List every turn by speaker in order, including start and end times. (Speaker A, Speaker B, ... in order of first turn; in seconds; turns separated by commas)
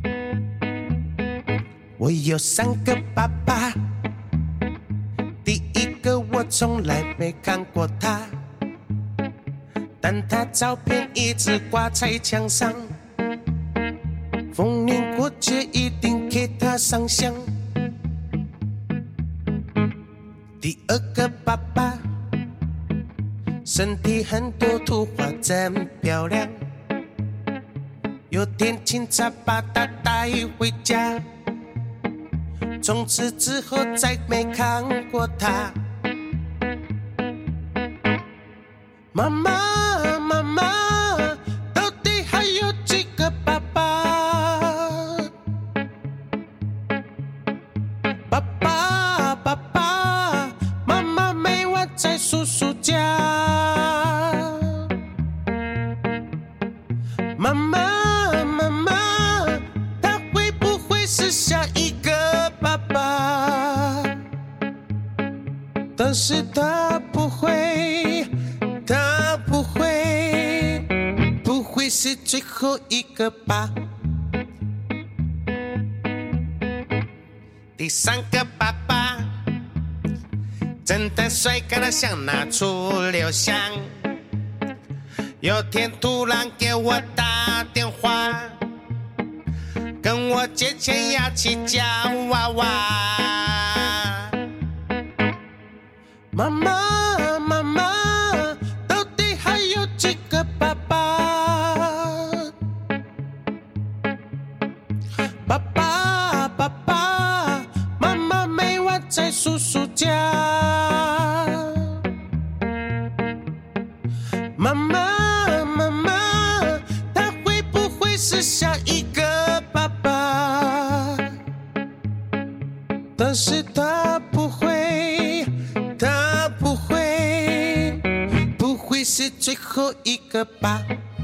Speaker A: 2.0-3.8, Speaker A: 5.5-8.3, Speaker A: 10.0-12.9, Speaker A: 14.5-17.5, Speaker A: 20.6-22.0, Speaker A: 23.6-26.6, Speaker A: 28.3-31.2, Speaker A: 32.8-35.8, Speaker A: 39.1-45.3, Speaker A: 48.3-54.9, Speaker A: 57.4-64.1, Speaker A: 66.0-68.3, Speaker A: 68.9-70.9, Speaker A: 71.4-73.7, Speaker A: 77.8-79.3, Speaker A: 80.8-83.9, Speaker A: 85.4-88.6, Speaker A: 90.0-94.4, Speaker A: 96.3-102.5, Speaker A: 105.5-112.0, Speaker A: 114.6-121.2, Speaker A: 123.2-128.0, Speaker A: 128.6-130.9